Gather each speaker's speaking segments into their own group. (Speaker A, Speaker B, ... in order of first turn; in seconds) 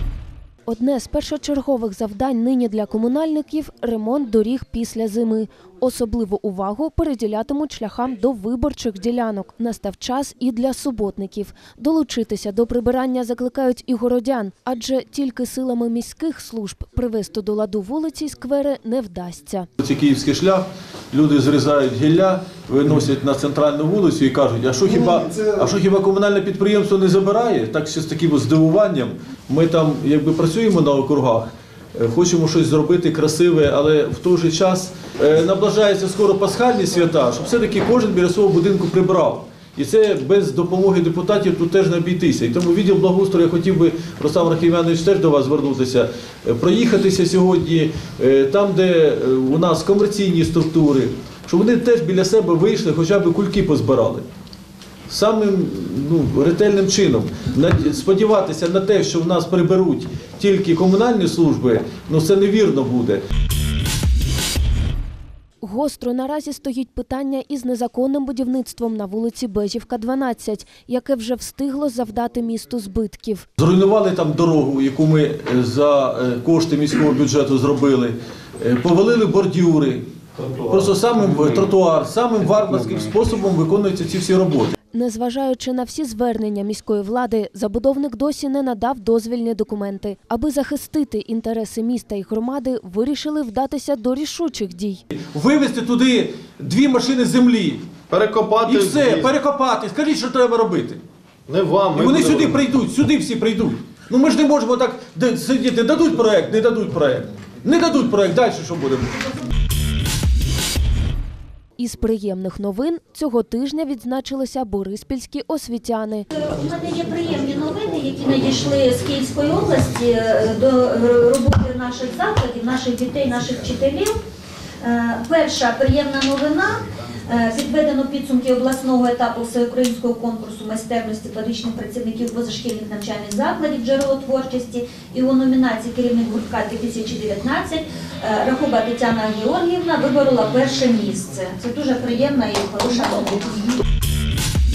Speaker A: 0.7-19.7, 65.6-73.5, 84.9-95.0, 111.8-116.3
Speaker B: 19.8-54.3, 55.1-63.2, 73.6-80.1, 80.7-84.8, 95.1-97.8, 98.7-101.0, 102.0-109.3
Speaker C: 98.1-99.3, 101.5-102.6
Speaker D: 116.3-124.2, 124.8-143.8